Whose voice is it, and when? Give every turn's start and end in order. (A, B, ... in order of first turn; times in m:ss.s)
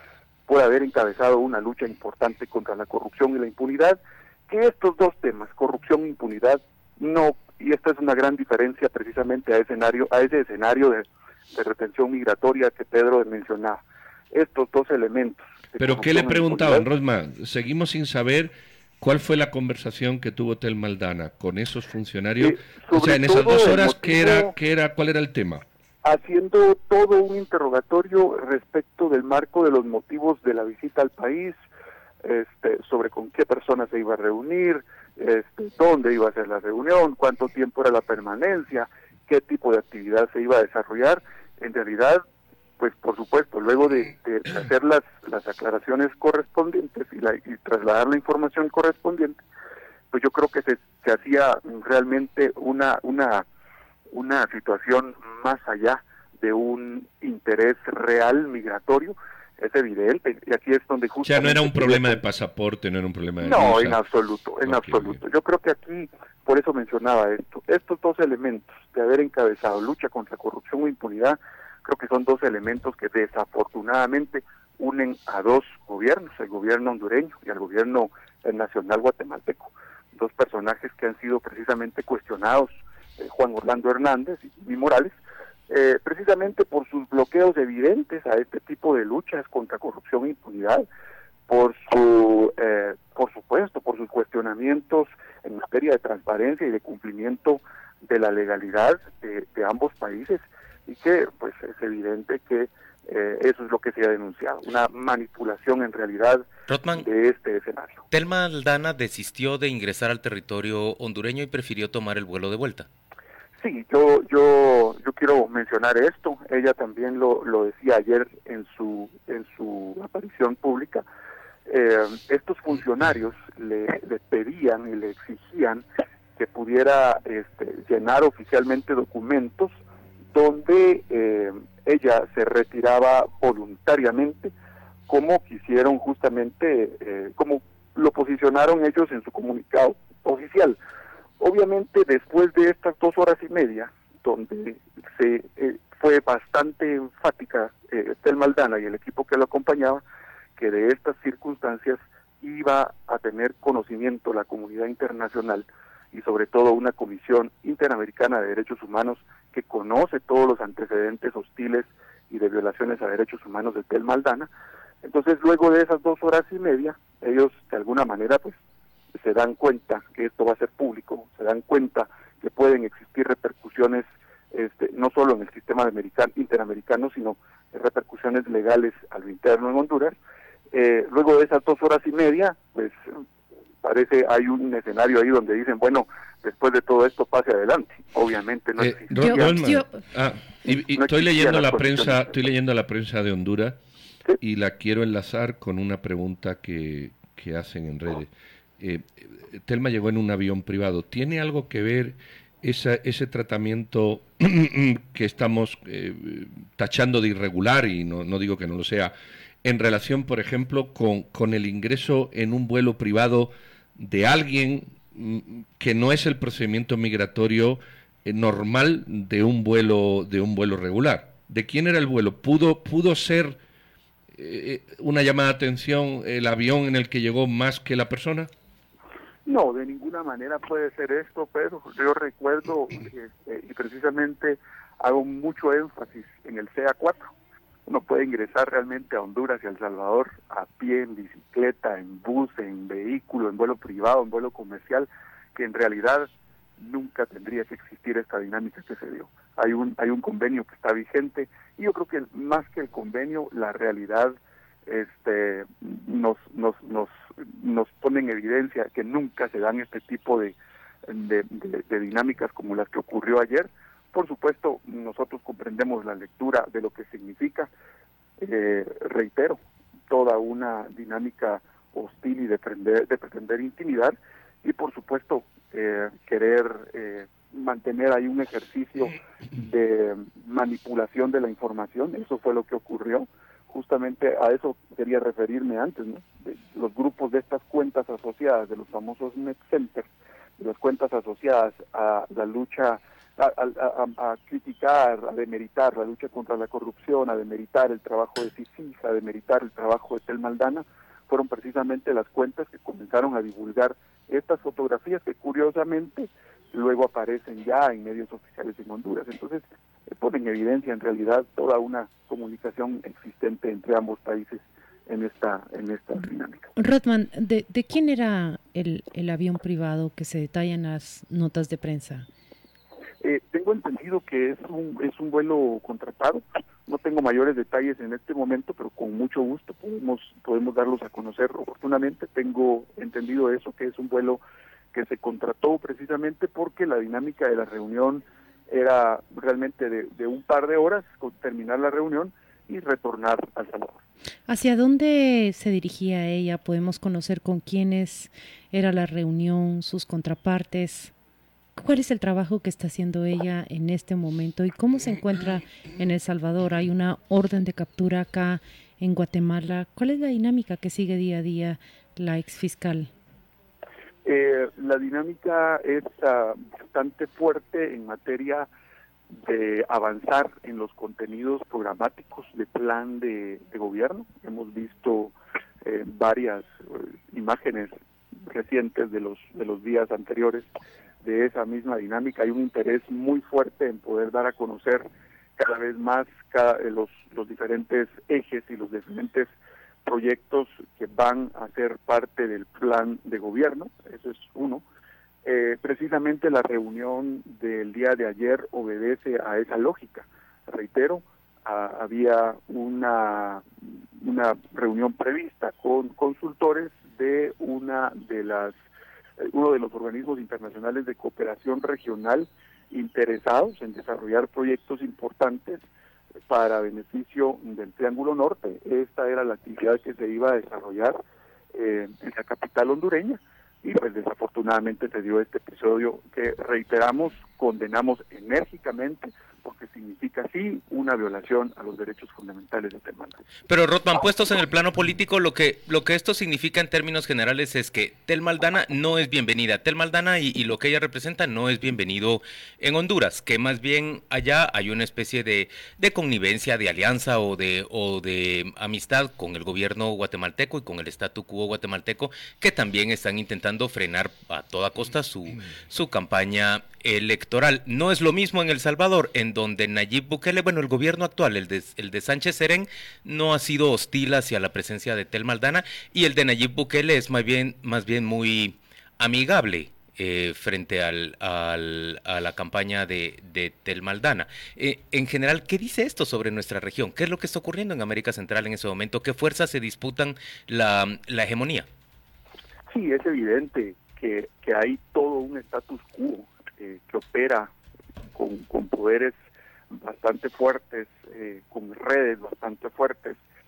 0:00.5-0:13.8 A
0:14.3-0:16.8 A
0:15.8-0:25.6 B
0:22.4-0:24.5 A
0:26.0-0:31.5 A
0:32.2-0:42.2 A
0:42.8-0:49.4 A
0:50.1-0:53.4 A
0:54.1-1:02.2 A
1:01.2-1:04.0 B
1:03.4-1:25.1 A
1:04.6-1:05.2 B
1:25.7-1:30.8 A
1:31.5-1:48.0 A
1:46.7-1:47.1 C
1:48.1-1:52.9 C
1:53.6-2:01.0 A
2:01.7-2:05.8 A
2:06.4-2:09.8 A
2:10.3-2:14.5 A
2:15.1-2:20.8 A
2:21.4-2:30.0 A
2:30.6-2:44.5 A
2:45.0-2:48.6 A
2:49.2-3:00.2 A
3:00.7-3:03.0 A
3:03.8-3:09.6 A
3:08.8-3:13.8 B
3:09.2-3:10.0 D
3:10.7-3:12.3 A
3:14.4-3:29.1 B
3:29.6-3:43.6 B
3:44.3-3:48.5 B
3:49.4-3:57.3 A
3:57.8-4:20.6 A
4:21.1-4:27.7 A
4:28.4-4:50.1 A
4:50.6-5:16.7 A
5:16.8-5:22.3 D
5:23.2-5:34.4 A
5:34.9-5:44.0 A
5:44.5-5:51.1 D
5:51.8-6:03.1 D
6:04.2-6:08.7 A
6:09.4-6:20.7 A
6:21.2-6:25.0 A
6:25.6-6:29.5 A
6:30.0-6:34.8 A
6:35.4-6:48.7 A
6:49.4-6:55.8 A
6:56.5-7:01.2 A
7:01.7-7:13.4 A
7:13.7-8:01.9 C
8:02.9-8:07.7 A
8:08.3-8:09.4 A
8:09.9-8:13.4 A